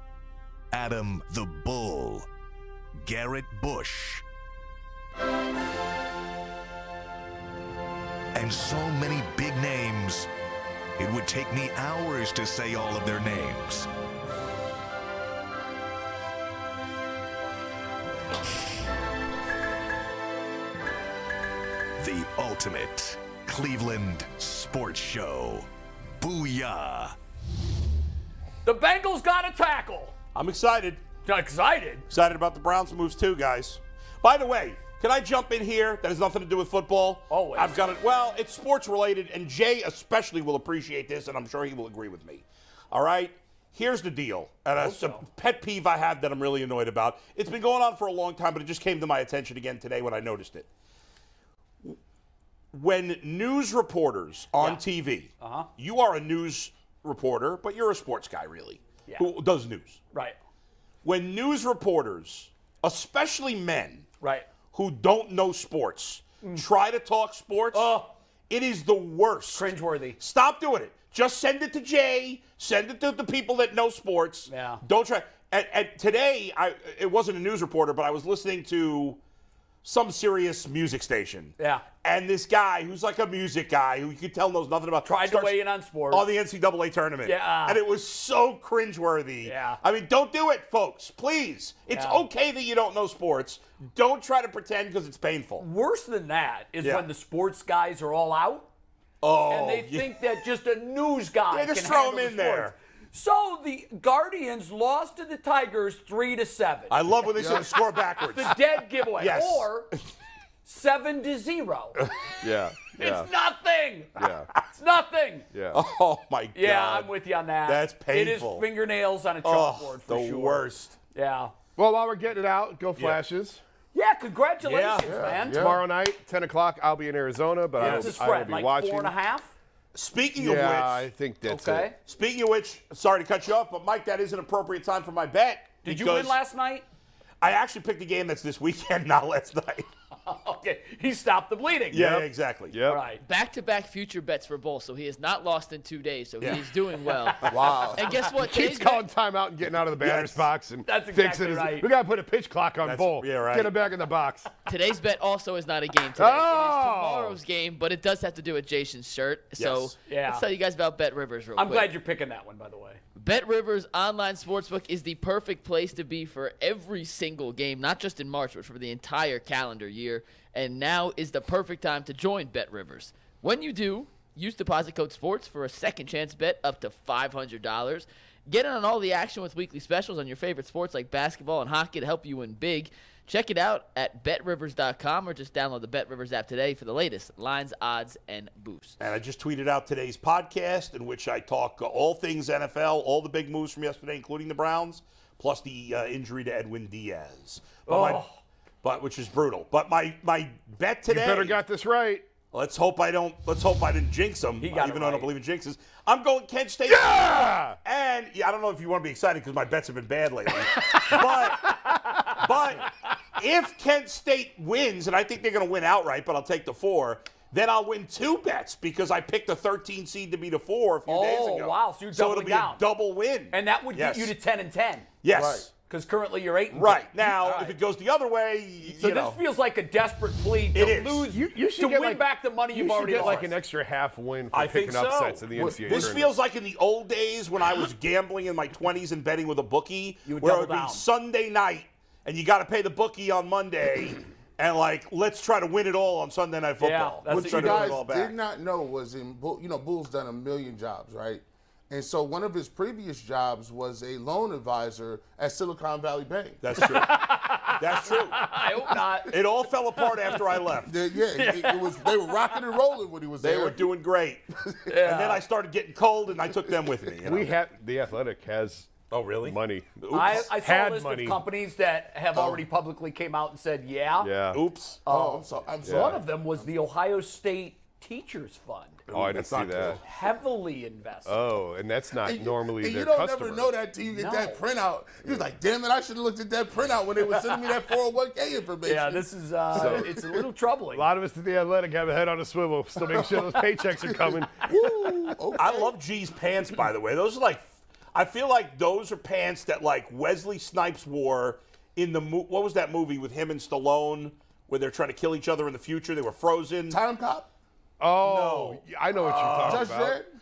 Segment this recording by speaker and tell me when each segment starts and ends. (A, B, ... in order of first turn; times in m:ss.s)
0:00.7-0:02.3 A
0:03.0-0:04.2 A
0:08.3-0:10.3 A
0:11.0-0:13.9 A
0:22.0-0:25.7 A
0:26.2-0:27.1 A
0:28.6-0:30.1 B
0:30.3-0:31.0 C
0:31.2-0:32.0 B
0:32.1-0:50.7 C
0:37.3-0:37.8 B
0:44.7-0:45.2 B
0:52.7-1:00.0 C
0:55.4-0:55.7 B
1:01.0-1:04.1 C
1:04.2-1:04.5 B
1:04.7-1:07.9 C
1:07.7-1:08.1 B
1:08.5-1:19.2 C
1:09.5-1:10.2 B
1:14.5-1:14.8 B
1:19.8-1:35.6 C
1:21.6-1:21.8 B
1:25.0-1:26.2 B
1:27.2-1:27.8 B
1:29.4-1:29.8 B
1:31.9-1:32.2 B
1:35.6-1:38.7 B
1:36.8-1:37.1 C
1:39.2-1:40.2 C
1:39.5-1:47.0 B
1:41.5-1:42.7 C
1:46.9-1:49.7 C
1:47.4-1:47.8 D
1:48.2-1:49.9 B
1:50.6-1:52.0 B
1:52.4-1:53.3 E
1:53.0-1:54.1 B
1:54.2-1:54.5 E
1:54.7-1:55.5 B
1:55.5-1:55.8 E
1:55.7-1:57.1 C
1:56.5-2:01.5 B
1:57.6-1:58.6 C
1:59.4-2:01.0 C
2:01.8-2:03.6 E
2:03.0-2:03.2 C
2:03.9-2:05.7 B
2:04.6-2:05.2 C
2:05.0-2:05.8 D
2:05.5-2:09.1 E
2:07.8-2:09.5 B
2:07.8-2:08.1 C
2:09.9-2:11.1 C
2:10.4-2:11.9 E
2:11.4-2:12.0 B
2:12.0-2:16.4 C
2:15.8-2:16.8 B
2:17.4-2:19.9 C
2:20.2-2:22.3 B
2:21.9-2:22.8 C
2:22.7-2:23.0 E
2:22.9-2:23.2 B
2:23.2-2:29.0 F
2:26.4-2:26.7 C
2:27.2-2:27.6 B
2:27.5-2:28.1 D
2:28.2-2:34.6 E
2:30.0-2:30.4 C
2:30.8-2:31.9 B
2:32.8-2:33.7 C
2:34.7-2:41.9 F
2:36.2-2:37.4 E
2:39.6-2:39.9 C
2:40.0-2:40.4 B
2:41.6-2:43.0 B
2:43.2-3:09.0 F
3:09.0-3:18.2 C
3:17.9-3:18.4 B
3:18.8-3:21.6 C
3:21.1-3:22.3 E
3:22.5-3:44.3 C
3:24.6-3:25.3 B
3:26.9-3:27.8 E
3:30.7-3:32.4 B
3:41.1-3:42.8 B
3:43.5-3:45.1 B
3:45.2-3:45.7 C
3:45.3-3:45.7 D
3:45.9-3:47.8 B
3:46.7-3:49.4 C
3:48.8-3:53.5 B
3:50.7-3:51.2 C
3:51.3-3:56.3 E
3:53.1-3:53.5 C
3:54.5-4:08.3 C
3:55.6-3:56.1 D
4:00.2-4:01.0 B
4:06.8-4:08.0 B
4:07.3-4:16.9 D
4:16.6-4:18.6 C
4:16.8-4:19.4 B
4:19.3-4:20.9 C
4:20.0-4:20.4 B
4:20.8-4:23.8 D
4:21.3-4:22.5 B
4:23.4-4:27.5 C
4:24.8-4:25.4 B
4:27.2-4:31.4 E
4:29.1-4:30.5 C
4:30.1-4:34.3 B
4:32.4-4:32.6 D
4:34.2-4:34.6 E
4:34.5-4:35.0 C
4:35.0-4:39.1 B
4:35.1-4:36.3 D
4:35.8-4:36.2 E
4:39.1-4:40.0 C
4:39.1-4:40.0 E
4:40.0-4:41.4 B
4:41.2-4:43.7 E
4:42.2-4:50.4 D
4:44.0-4:44.6 B
4:48.8-4:51.1 B
4:49.7-4:50.1 E
4:50.9-4:55.3 E
4:54.0-4:55.9 D
4:55.6-5:07.0 C
5:06.9-5:07.5 D
5:08.0-5:10.2 E
5:08.2-5:09.9 C
5:09.6-5:10.3 D